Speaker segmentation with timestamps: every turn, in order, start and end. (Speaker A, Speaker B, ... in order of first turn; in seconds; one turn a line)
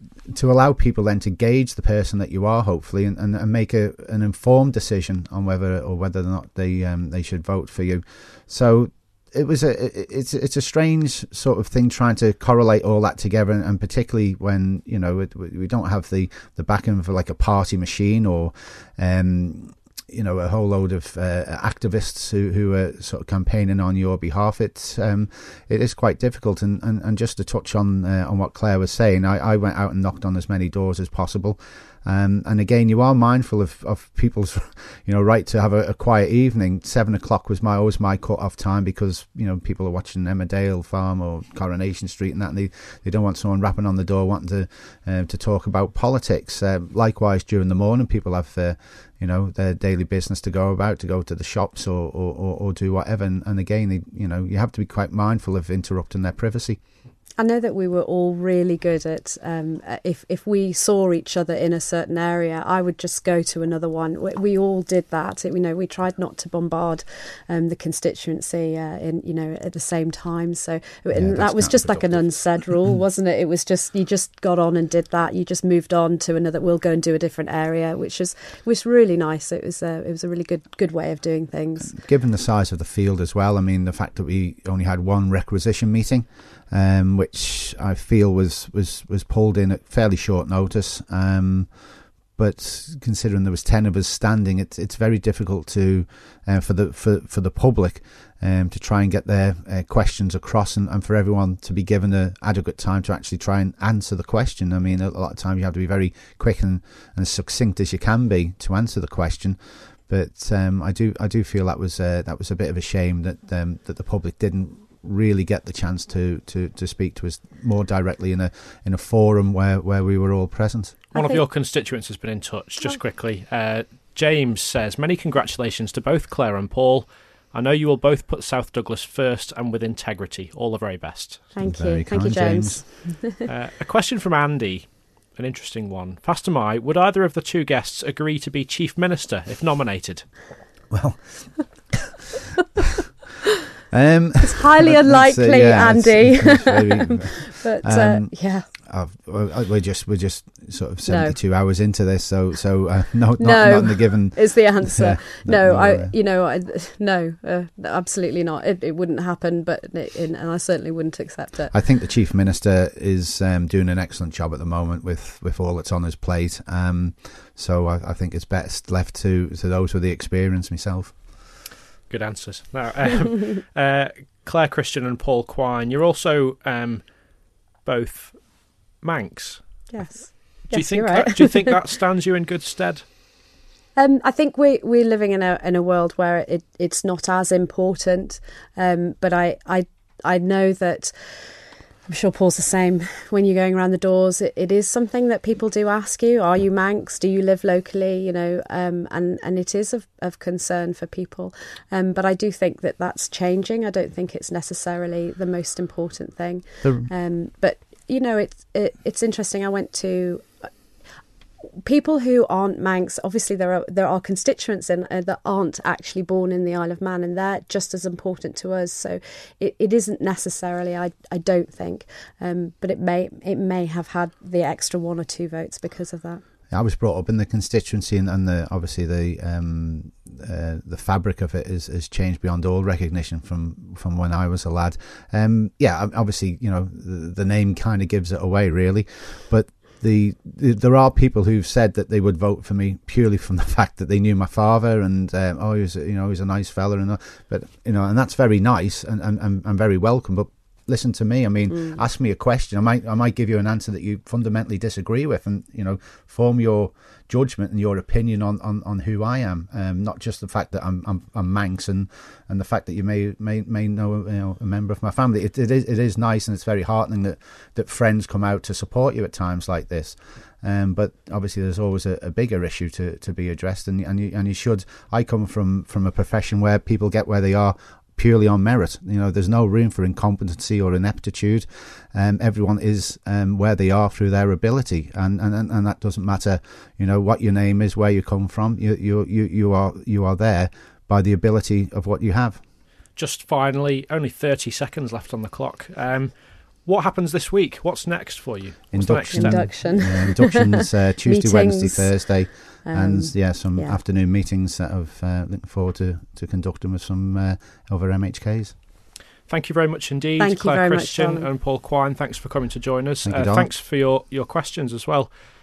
Speaker A: 0.3-56.8
Speaker B: 57.4-82.0
Speaker A: 71.1-72.7
Speaker A: 81.8-91.7
Speaker A: 92.4-121.0
Speaker B: 121.1-121.4
Speaker C: 121.1-131.5
Speaker B: 131.6-133.4
Speaker A: 131.6-132.8
Speaker C: 133.4-140.3
Speaker A: 140.9-142.1
Speaker A: 143.9-156.1
Speaker B: 144.4-148.7
Speaker B: 151.1-151.4
Speaker B: 153.4-161.7
Speaker A: 161.7-171.1
Speaker C: 172.1-177.1
Speaker C: 177.8-178.4
Speaker C: 179.0-179.6
Speaker B: 179.9-181.7
Speaker C: 180.7-183.0
Speaker B: 183.9-191.1
Speaker B: 192.1-210.7
Speaker A: 206.8-207.1
Speaker B: 211.8-226.4
Speaker A: 226.7-292.6
Speaker C: 293.2-299.7
Speaker A: 298.9-308.7
Speaker B: 299.3-302.2
Speaker B: 302.9-304.0
Speaker C: 309.5-315.3
Speaker B: 310.4-311.5
Speaker A: 313.2-313.7